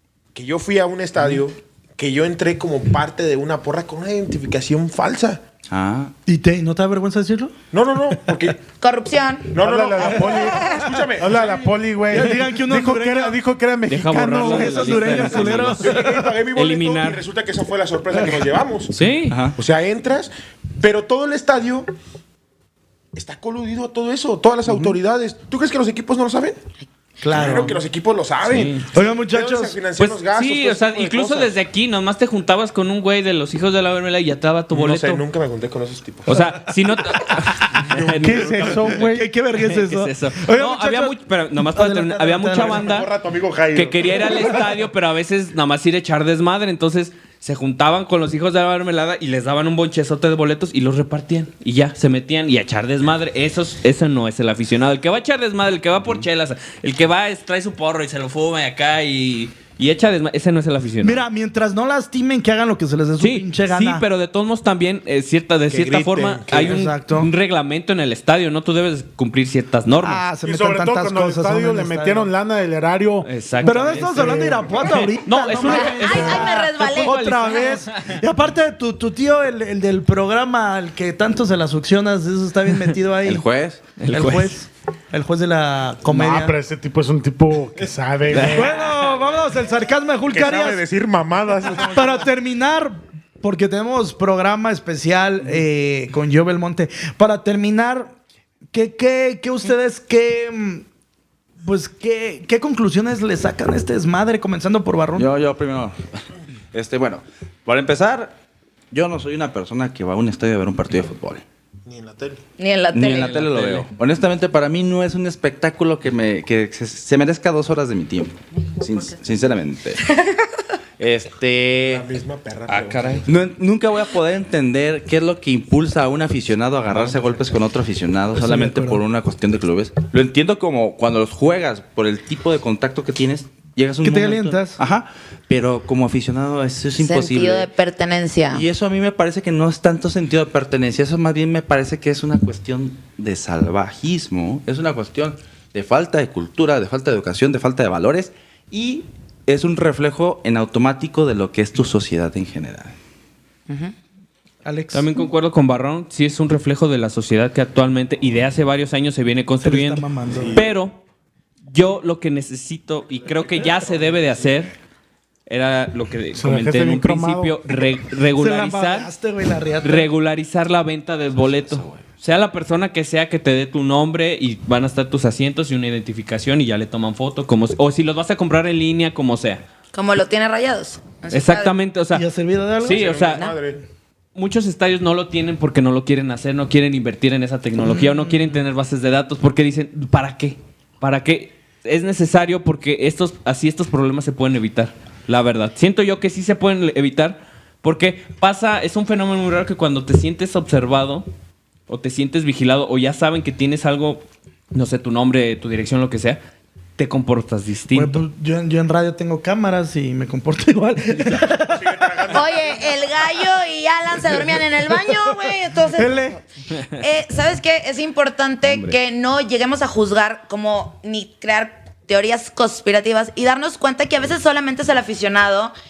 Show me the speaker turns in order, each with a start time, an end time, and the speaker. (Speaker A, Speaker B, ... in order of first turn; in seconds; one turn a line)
Speaker A: 0.3-5.4
Speaker B: 5.7-6.1
Speaker C: 6.3-7.5
Speaker A: 7.7-8.7
Speaker D: 8.8-9.6
Speaker A: 9.5-11.7
Speaker E: 9.6-15.7
Speaker D: 10.4-10.8
Speaker C: 12.1-13.4
Speaker F: 13.9-17.2
Speaker C: 14.2-16.2
Speaker A: 15.8-18.9
Speaker F: 18.9-19.4
Speaker B: 19.3-19.6
Speaker A: 19.6-21.9
Speaker A: 23.1-26.6
Speaker C: 27.2-27.8
Speaker A: 27.3-31.5
Speaker F: 28.4-28.9
Speaker C: 28.9-29.8
Speaker F: 30.0-35.2
Speaker A: 34.7-36.7
Speaker F: 36.3-43.1
Speaker E: 38.2-39.3
Speaker C: 38.8-41.1
Speaker C: 41.7-43.0
Speaker A: 42.5-44.8
Speaker F: 43.7-61.2
Speaker C: 61.0-64.0
Speaker F: 63.2-70.2
Speaker A: 65.7-66.9
Speaker C: 66.6-67.3
Speaker C: 70.0-72.3
Speaker E: 70.4-73.3
Speaker F: 73.2-78.2
Speaker C: 73.6-83.5
Speaker E: 73.9-74.6
Speaker D: 75.5-77.5
Speaker B: 83.2-83.8
Speaker F: 84.0-84.5
Speaker C: 84.1-86.5
Speaker E: 86.0-88.9
Speaker F: 88.3-89.2
Speaker C: 88.4-90.8
Speaker A: 90.3-92.3
Speaker C: 91.8-98.1
Speaker C: 98.7-100.9
Speaker C: 101.6-105.3
Speaker B: 105.2-108.3
Speaker B: 108.9-111.4
Speaker A: 111.8-112.4
Speaker D: 112.6-113.4
Speaker B: 112.9-120.1
Speaker F: 113.1-113.9
Speaker D: 120.1-120.4
Speaker B: 121.0-122.0
Speaker A: 121.7-123.3
Speaker F: 122.7-123.3
Speaker B: 123.2-137.7
Speaker A: 126.9-127.5
Speaker C: 128.4-129.0
Speaker C: 134.0-134.8
Speaker D: 137.0-138.6
Speaker B: 138.5-152.9
Speaker C: 154.7-155.1
Speaker F: 154.9-161.0
Speaker C: 159.6-160.6
Speaker A: 160.3-160.6
Speaker F: 161.7-164.7
Speaker A: 163.4-164.6
Speaker F: 165.5-169.1
Speaker E: 166.3-167.6
Speaker C: 168.4-170.1
Speaker F: 169.8-179.6
Speaker B: 171.4-172.1
Speaker D: 179.9-181.7
Speaker F: 181.3-182.2
Speaker C: 182.1-183.1
Speaker F: 182.8-183.5
Speaker A: 182.8-183.8
Speaker F: 184.3-201.2
Speaker C: 187.8-188.6
Speaker F: 201.9-204.2
Speaker F: 204.7-206.4
Speaker F: 207.0-208.2
Speaker C: 207.9-212.4
Speaker A: 211.7-213.2
Speaker D: 212.3-216.4
Speaker C: 215.1-216.4
Speaker D: 217.0-225.7
Speaker F: 218.6-219.0